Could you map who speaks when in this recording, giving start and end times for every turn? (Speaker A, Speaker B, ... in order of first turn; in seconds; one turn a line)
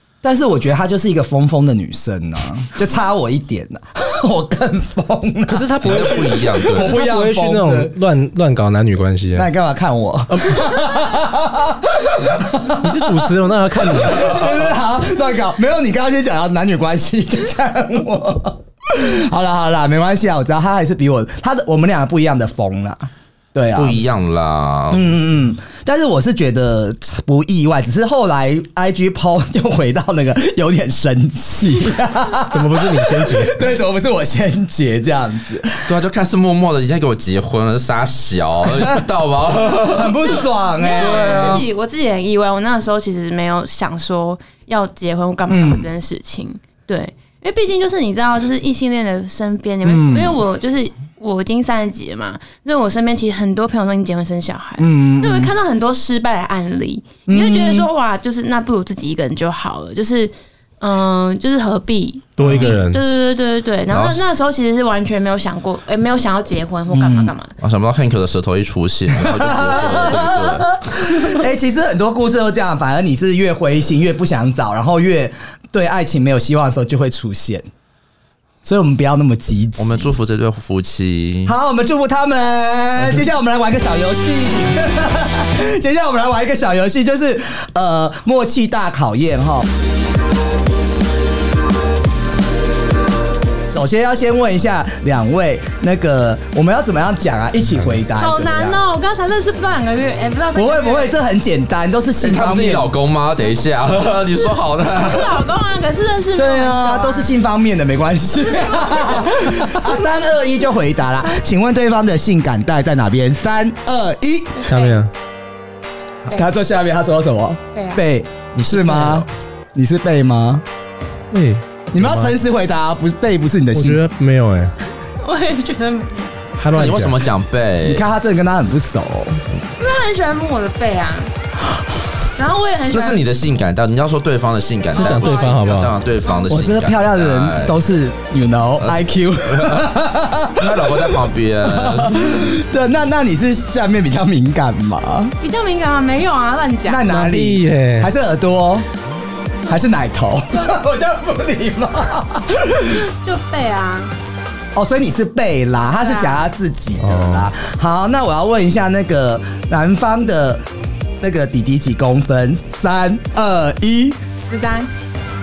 Speaker A: 0.2-7.9
Speaker B: 5.5-9.5
Speaker C: 5.8-7.0
Speaker A: 9.3-13.3
Speaker B: 10.3-10.8
Speaker B: 12.8-14.6
Speaker A: 13.8-24.0
Speaker C: 23.7-25.1
Speaker A: 24.9-35.8
Speaker B: 32.5-33.8
Speaker C: 35.9-40.3
Speaker A: 39.8-41.6
Speaker D: 40.3-67.5
Speaker C: 41.0-41.6
Speaker A: 45.5-45.9
Speaker A: 49.8-50.4
Speaker A: 54.8-55.5
Speaker A: 57.3-57.9
Speaker B: 62.4-63.0
Speaker A: 62.4-62.7
Speaker C: 63.9-64.2
Speaker A: 66.9-67.3
Speaker C: 67.6-70.7
Speaker A: 69.1-77.7
Speaker A: 78.6-80.1
Speaker C: 79.8-81.5
Speaker A: 81.5-89.7
Speaker A: 93.7-98.8
Speaker D: 98.2-101.2
Speaker A: 100.5-102.9
Speaker C: 102.2-105.4
Speaker D: 104.3-107.3
Speaker A: 106.3-114.6
Speaker D: 108.3-110.0
Speaker D: 114.5-115.0
Speaker B: 114.7-115.1
Speaker A: 116.2-120.6
Speaker D: 117.7-118.0
Speaker C: 118.5-119.3
Speaker B: 121.3-122.3
Speaker A: 121.9-124.0
Speaker B: 123.7-124.7
Speaker D: 125.2-126.4
Speaker B: 126.6-127.2
Speaker C: 126.7-128.1
Speaker A: 127.8-129.4
Speaker D: 129.8-131.3
Speaker D: 132.3-133.2
Speaker C: 132.9-137.8
Speaker D: 134.9-135.6
Speaker B: 134.9-135.9
Speaker A: 136.5-141.1
Speaker C: 138.8-139.9
Speaker C: 140.6-142.4
Speaker A: 141.7-145.3
Speaker D: 145.4-147.1
Speaker A: 146.9-148.8
Speaker B: 147.1-148.1
Speaker A: 149.7-153.0
Speaker D: 152.8-154.1
Speaker A: 154.7-160.6
Speaker D: 156.0-156.5
Speaker B: 157.0-157.5
Speaker A: 161.2-164.2
Speaker D: 164.5-164.9